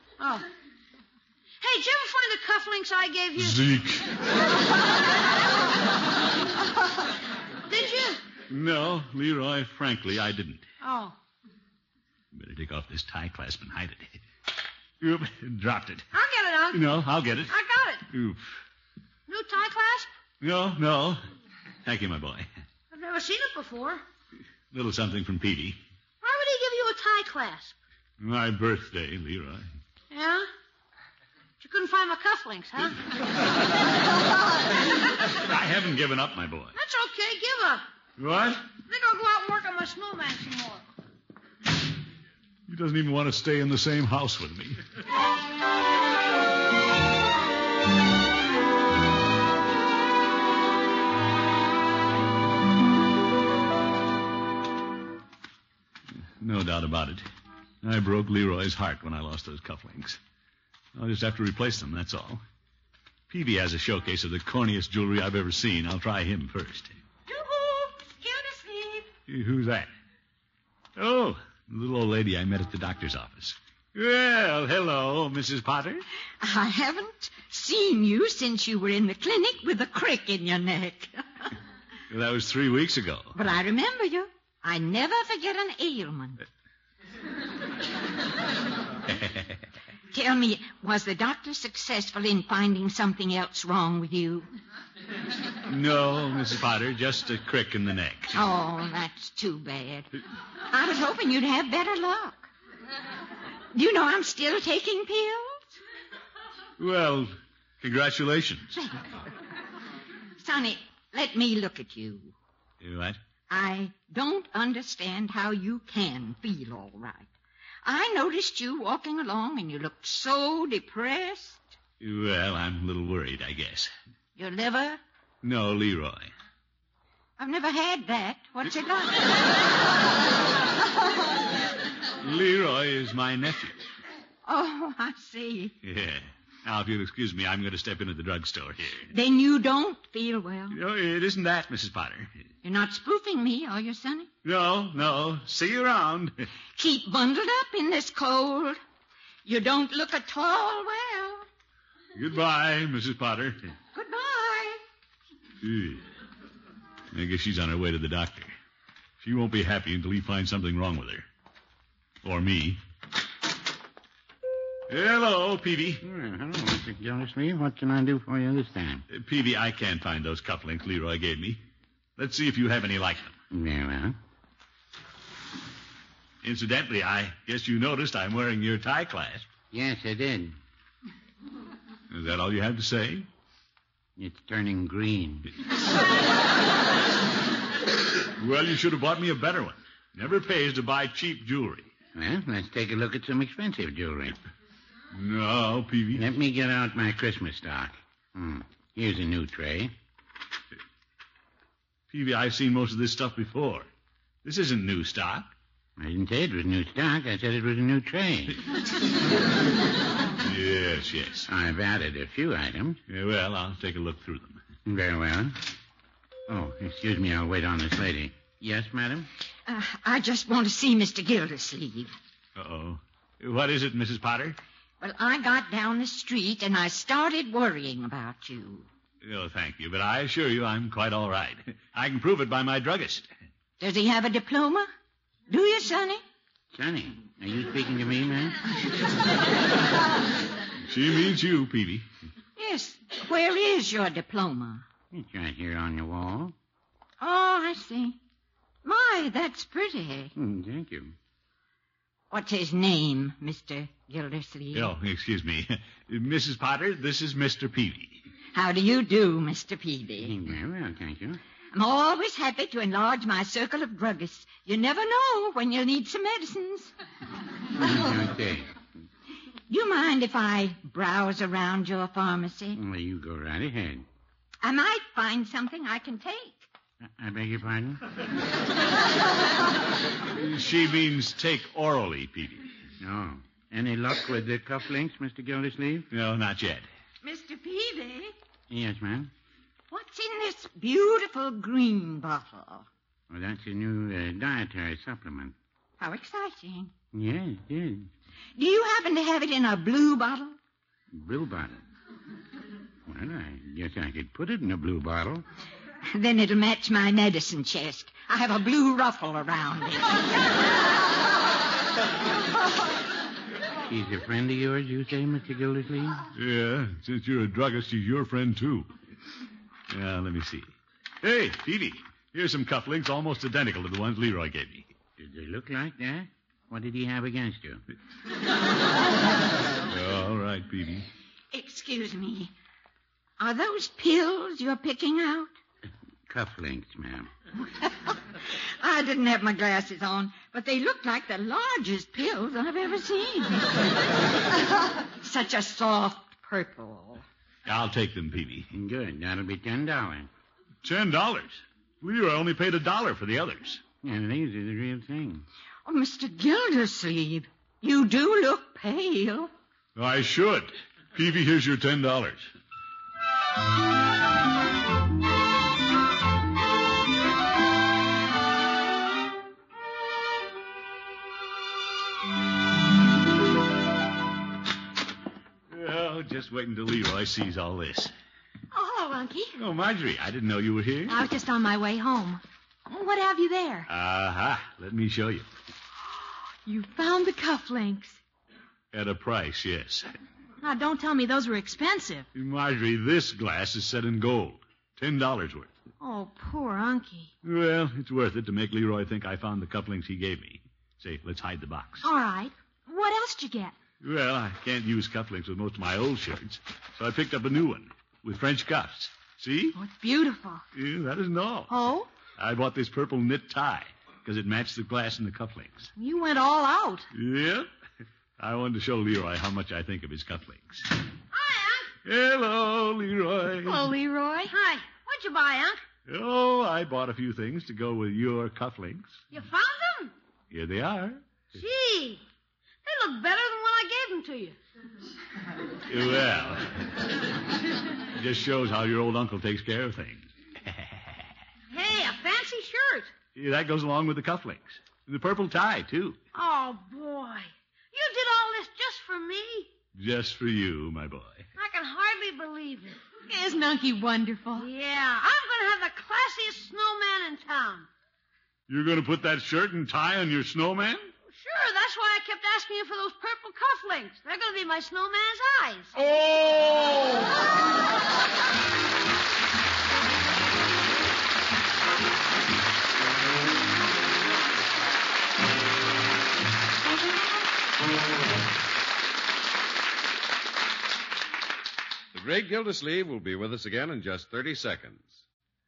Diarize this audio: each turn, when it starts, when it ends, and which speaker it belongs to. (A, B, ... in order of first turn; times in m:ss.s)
0:00.2-0:00.5 A
0:01.6-0:03.6 A
0:03.4-0:04.5 B
0:07.7-0:08.2 A
0:08.5-0:10.6 B
0:10.8-0:11.2 A
0:12.3-0:14.2 B
0:15.0-0:16.1 B
0:16.1-0:16.9 A
0:16.7-0:17.6 B
0:17.5-0:18.0 A
0:18.1-0:18.6 B
0:19.3-0:20.1 A
0:20.4-0:21.2 B
0:21.8-0:22.5 B
0:22.9-0:24.0 A
0:24.7-0:25.8 B
0:26.2-0:27.8 A
0:28.2-0:29.7 B
0:30.1-0:30.5 A
0:31.6-0:33.0 A
0:35.3-0:36.7 B
0:36.8-0:37.9 A
0:38.2-0:38.7 B
0:38.9-0:40.8 A
0:42.7-0:44.8 B
0:56.4-0:57.3 B
0:57.8-1:00.2 B
1:01.0-1:02.4 B
1:03.3-1:07.0 B
1:07.3-1:09.1 C
1:09.3-1:09.9 B
1:11.0-1:16.1 B
1:16.4-1:21.5 C
1:22.1-1:23.4 B
1:23.4-1:26.4 C
1:30.1-1:34.5 C
1:35.7-1:38.4 B
1:38.3-1:42.5 C
1:43.7-1:45.8 C
1:46.8-1:48.8 B
1:48.8-1:49.2 C
1:50.4-1:52.3 C
1:52.8-1:53.2 B
1:53.5-1:57.3 C
1:57.8-2:01.7 C
2:02.0-2:03.9 B
2:04.4-2:05.0 C
2:05.4-2:06.3 B
2:07.4-2:09.4 C
2:12.2-2:13.9 B
2:14.4-2:15.7 C
2:15.8-2:19.1 B
2:19.1-2:20.8 C
2:20.7-2:22.4 B
2:22.6-2:24.3 C
2:24.4-2:26.5 B
2:26.8-2:28.8 C
2:29.4-2:31.5 C
2:32.1-2:33.7 B
2:33.9-2:34.8 C
2:35.6-2:36.0 B
2:37.1-2:38.5 B
2:39.2-2:41.3 B
2:42.2-2:42.8 B
2:44.9-2:46.0 B
2:46.0-2:49.0 D
2:49.1-2:51.6 B
2:52.2-2:53.4 B
2:53.5-2:54.2 D
2:56.4-2:59.5 B
2:59.7-3:00.6 D
3:02.1-3:03.3 B
3:04.2-3:05.5 D
3:08.4-3:11.9 B
3:12.1-3:14.4 D
3:15.1-3:16.3 B
3:16.1-3:19.9 D
3:22.1-3:23.9 B
3:24.4-3:25.5 B
3:26.0-3:28.6 D
3:30.4-3:31.5 B
3:31.5-3:33.0 D
3:33.1-3:34.6 B
3:34.9-3:35.6 D
3:36.5-3:39.3 D
3:39.6-3:42.2 C
3:42.6-3:44.6 B
3:45.0-3:48.9 C
3:49.2-3:53.3 B
3:53.8-3:54.9 C
3:55.5-3:56.2 C
3:56.7-3:58.6 D
4:00.8-4:02.1 B
4:02.6-4:04.8 C
4:05.1-4:06.6 D
4:07.2-4:08.2 C
4:08.8-4:10.3 C
4:10.4-4:11.1 D
4:12.3-4:14.9 C
4:14.7-4:18.3 B
4:18.5-4:20.3 C
4:20.2-4:21.4 D
4:21.7-4:26.9 C
4:27.8-4:28.7 D
4:29.7-4:32.8 C
4:32.8-4:34.1 D
4:34.6-4:36.7 C
4:37.0-4:38.0 D
4:40.3-4:42.7 B
4:43.0-4:46.1 D
4:46.1-4:46.9 B
4:47.2-4:48.3 C
4:48.7-4:49.3 D
4:49.9-4:52.9 C
4:53.3-4:55.6 D
4:56.0-4:56.9 C
4:57.1-4:58.1 D
4:58.6-5:00.6 C
5:01.1-5:01.8 D
5:03.1-5:05.4 D
5:06.1-5:10.4 C
5:13.9-5:16.2 D
5:16.3-5:18.9 B
5:19.9-5:24.9 B
5:25.2-5:27.8 D
5:29.9-5:31.1 B
5:31.5-5:32.5 C
5:33.4-5:35.5 C
5:36.3-5:37.3 D
5:37.8-5:43.9 C
5:44.9-5:47.2 C
5:47.6-5:48.7 B
5:48.7-5:50.3 D
5:50.8-5:53.8 B
5:54.0-5:55.4 D
5:55.9-5:59.5 C
6:00.0-6:02.5 B
6:15.7-6:18.1 B
6:18.7-6:19.6 E
6:19.6-6:21.3 B
6:21.1-6:23.9 E
6:23.9-6:25.5 B
6:26.6-6:28.2 E
6:28.9-6:30.1 B
6:30.6-6:32.3 E
6:32.3-6:35.8 B
6:36.0-6:37.3 E
6:37.4-6:42.0 B
6:42.0-6:43.8 E
6:44.0-6:49.8 B
6:49.8-6:50.6 E
6:50.7-6:51.7 B
6:51.7-6:52.1 E
6:52.4-6:55.9 B
6:56.0-6:57.1 E
6:57.1-6:57.7 B
6:58.4-7:00.9 B
7:01.3-7:01.9 A
7:02.0-7:03.9 B
7:03.6-7:04.5 E
7:04.5-7:05.8 A
7:06.1-7:09.2 B
7:09.3-7:10.1 A
7:10.5-7:11.2 B
7:11.5-7:12.2 A
7:12.8-7:14.6 A
7:15.8-7:17.1 B
7:18.1-7:21.3 B
7:21.7-7:23.1 A
7:23.4-7:26.2 B
7:26.4-7:29.7 A
7:30.0-7:31.5 B
7:31.6-7:33.0 A
7:33.3-7:34.7 E
7:34.6-7:37.9 A
7:38.7-7:41.1 B
7:41.3-7:45.9 A
7:46.0-7:47.0 B
8:02.1-8:05.2 F